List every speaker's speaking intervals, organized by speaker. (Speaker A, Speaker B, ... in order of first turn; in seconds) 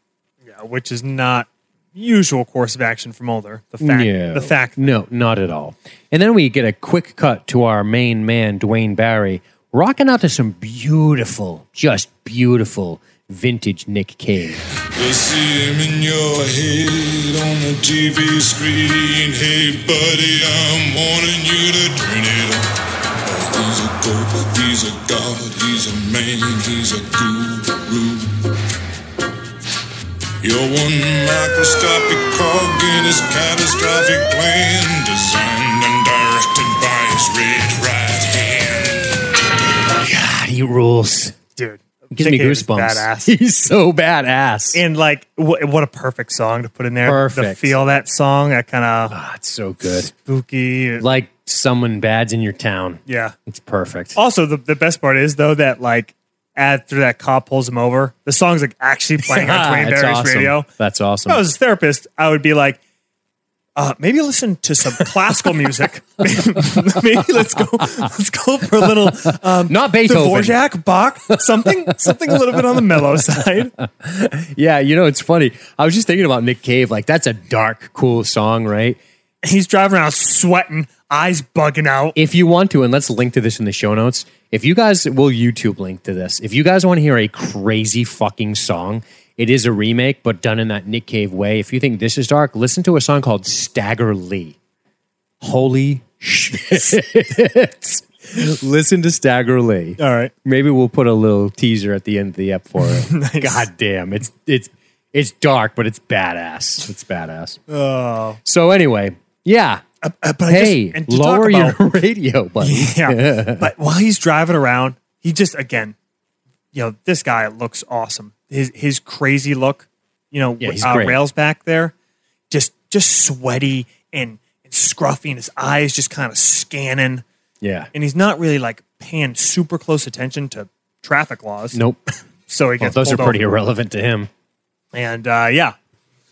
Speaker A: 0.4-4.9, 41.5-43.3, 44.7-49.1, 50.2-51.0, 53.1-53.3, 54.1-60.7, 61.3-62.8, 63.8-73.7, 79.4-82.2, 100.0-100.3, 102.8-103.7, 107.7-108.4, 110.0-111.8, 112.6-115.9, 116.7-121.9, 122.5-127.2, 127.9-131.8, 132.5-133.4, 134.9-135.7
Speaker B: 3.8-14.6, 40.0-41.4, 42.1-44.8, 47.0-47.8, 49.1-50.1, 51.0-54.2, 59.2-61.4, 69.2-70.6, 71.9-73.0, 73.8-79.0, 82.1-94.5, 95.4-107.6, 108.4-109.8, 110.5-113.7, 120.6-121.2, 127.6-127.9, 131.7-132.0, 132.8-134.3
Speaker C: 14.9-22.7, 23.2-28.3, 30.4-39.2